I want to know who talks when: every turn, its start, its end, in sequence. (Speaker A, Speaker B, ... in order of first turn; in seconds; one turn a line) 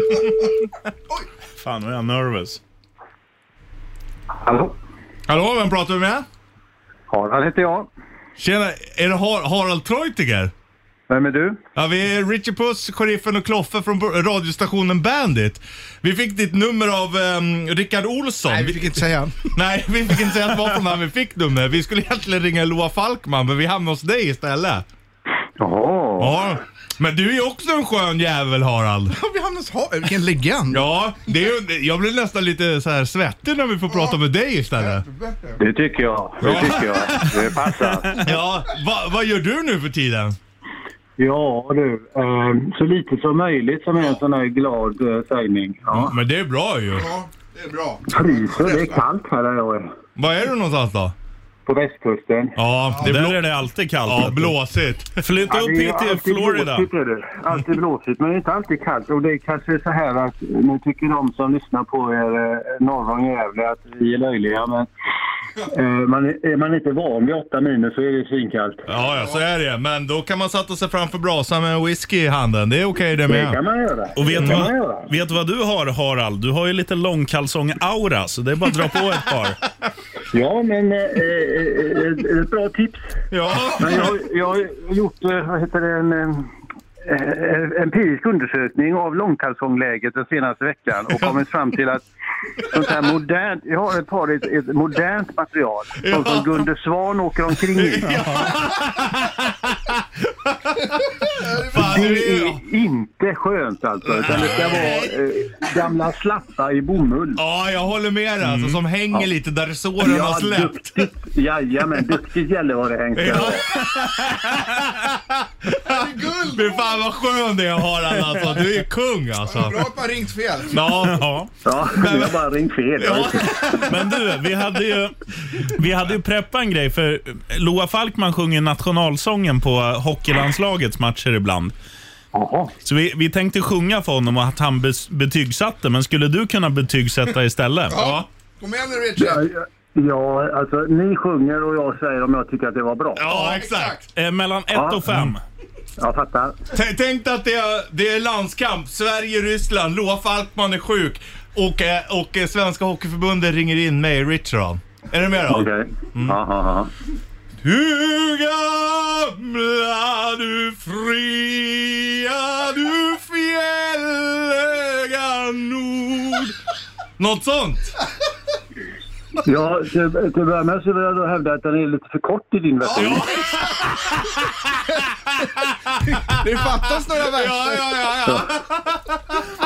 Speaker A: 1.6-2.6
Speaker B: 4.4-4.8
Speaker C: 5.3-6.2
Speaker B: 7.1-7.9
Speaker C: 8.4-10.5
Speaker B: 11.1-11.6
Speaker C: 11.8-18.9
Speaker D: 18.5-19.5
Speaker C: 19.5-24.9
Speaker B: 25.6-26.4
Speaker C: 26.2-29.2
Speaker D: 29.1-30.9
Speaker C: 30.7-35.0
Speaker D: 33.9-34.2
Speaker D: 34.7-35.6
Speaker B: 35.6-38.2
Speaker C: 36.4-37.4
Speaker D: 36.5-36.9
Speaker C: 38.2-40.4
Speaker B: 41.2-46.1
Speaker C: 45.9-47.1
Speaker D: 46.9-49.0
Speaker B: 48.1-49.9
Speaker C: 50.2-51.1
Speaker B: 51.7-52.6
Speaker C: 52.6-53.4
Speaker D: 52.9-53.1
Speaker A: 53.0-54.6
Speaker C: 54.0-55.1
Speaker A: 55.2-56.9
Speaker B: 55.5-64.9
Speaker B: 65.6-68.9
Speaker C: 68.9-73.6
Speaker B: 73.3-75.1
Speaker A: 74.2-79.6
Speaker C: 74.4-74.7
Speaker B: 80.3-83.0
Speaker C: 83.3-84.1
Speaker B: 83.8-86.5
Speaker B: 87.1-92.0
Speaker B: 92.6-98.1
Speaker C: 96.0-96.7
Speaker C: 97.6-102.6
Speaker A: 98.0-98.5
Speaker D: 101.5-102.0
Speaker B: 101.7-107.4
Speaker C: 104.1-105.1
Speaker A: 104.3-104.9
Speaker C: 107.4-111.1
Speaker A: 108.4-108.8
Speaker B: 110.0-113.7
Speaker C: 113.2-119.9
Speaker D: 115.9-117.0
Speaker A: 118.1-118.5
Speaker D: 119.4-120.9
Speaker C: 120.7-121.2
Speaker A: 121.0-121.5
Speaker B: 121.7-123.7
Speaker C: 121.9-122.4
Speaker C: 123.0-124.2
Speaker A: 123.8-131.8
Speaker B: 132.3-132.7
Speaker A: 132.8-138.0
Speaker D: 137.9-139.5
Speaker C: 138.0-138.3
Speaker B: 139.2-143.3
Speaker C: 143.2-144.0
Speaker D: 143.4-144.0
Speaker A: 144.2-145.4
Speaker B: 144.7-145.1
Speaker B: 146.0-146.6
Speaker C: 146.7-156.4
Speaker B: 155.5-156.9
Speaker C: 157.6-166.6
Speaker C: 167.2-167.9
Speaker B: 169.4-173.3
Speaker C: 173.0-174.2
Speaker C: 176.1-179.0
Speaker D: 176.2-177.9